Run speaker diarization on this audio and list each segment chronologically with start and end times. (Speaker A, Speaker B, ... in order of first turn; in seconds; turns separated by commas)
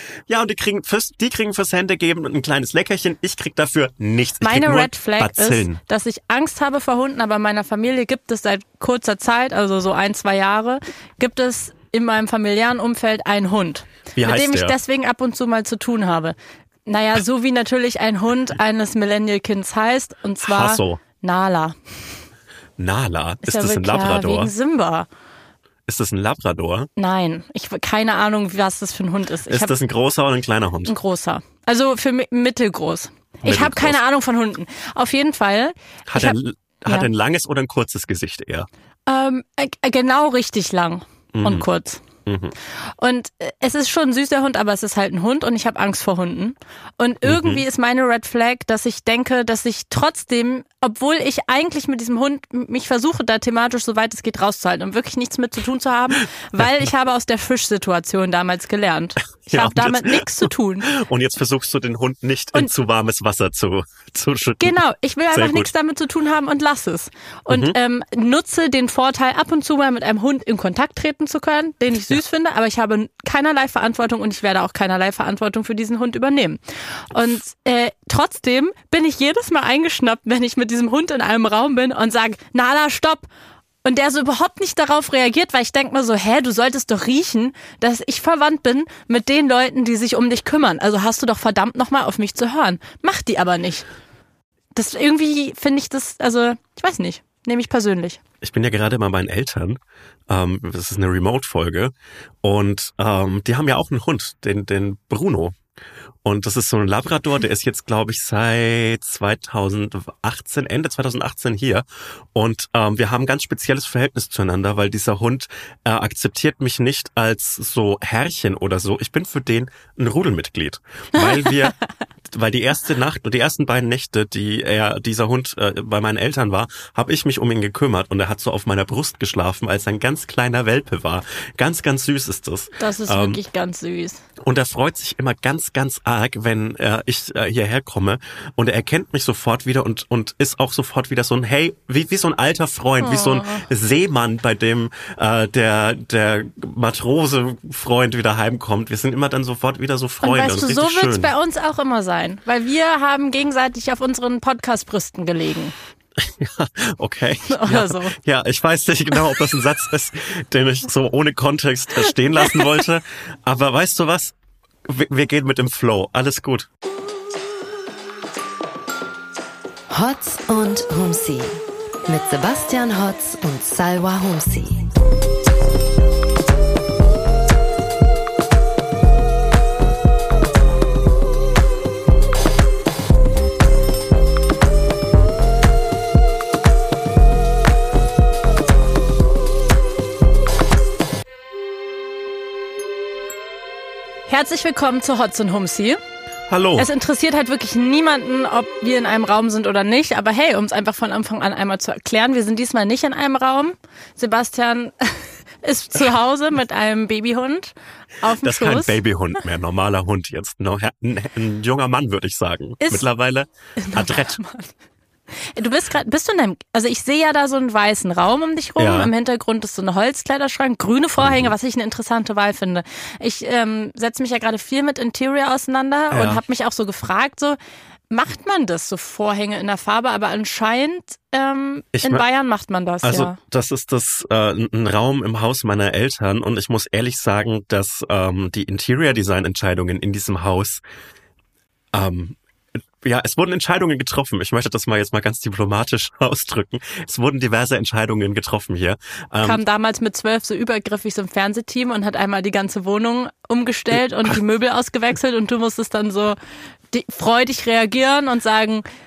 Speaker A: 0.3-5.8, Speaker B: 4.4-22.1, Speaker A: 14.1-14.7, Speaker A: 20.4-21.0, Speaker A: 22.8-24.5, Speaker B: 23.4-25.1, Speaker A: 25.9-26.9, Speaker B: 27.0-29.7, Speaker A: 29.5-30.9, Speaker B: 30.9-37.1, Speaker A: 33.4-34.0, Speaker A: 36.1-38.7, Speaker B: 39.1-42.0, Speaker A: 41.3-41.6, Speaker A: 42.2-42.5, Speaker B: 43.0-60.9, Speaker A: 47.2-47.6, Speaker A: 59.5-64.8, Speaker B: 64.6-83.3, Speaker A: 65.3-65.7, Speaker A: 67.5-67.8, Speaker B: 83.8-93.8, Speaker B: 94.7-98.2, Speaker A: 98.4-105.5, Speaker A: 106.2-121.8, Speaker B: 121.2-121.7, Speaker A: 122.3-133.4, Speaker B: 132.8-134.2, Speaker A: 134.4-151.3, Speaker B: 143.0-143.6, Speaker B: 150.2-155.7, Speaker A: 156.2-164.3, Speaker B: 157.5-158.2, Speaker A: 164.8-166.7, Speaker C: 169.9-174.9, Speaker B: 194.3-196.0, Speaker A: 196.5-196.9, Speaker B: 196.8-209.0, Speaker A: 208.4-214.4, Speaker B: 212.8-213.1, Speaker B: 213.8-214.7, Speaker B: 215.4-227.6, Speaker A: 218.8-219.1, Speaker A: 221.2-221.5, Speaker A: 226.1-226.4, Speaker B: 228.1-233.4, Speaker A: 231.9-232.2, Speaker A: 233.0-240.8, Speaker A: 241.9-242.4, Speaker A: 243.0-249.6, Speaker B: 249.4-256.4, Speaker B: 256.9-258.9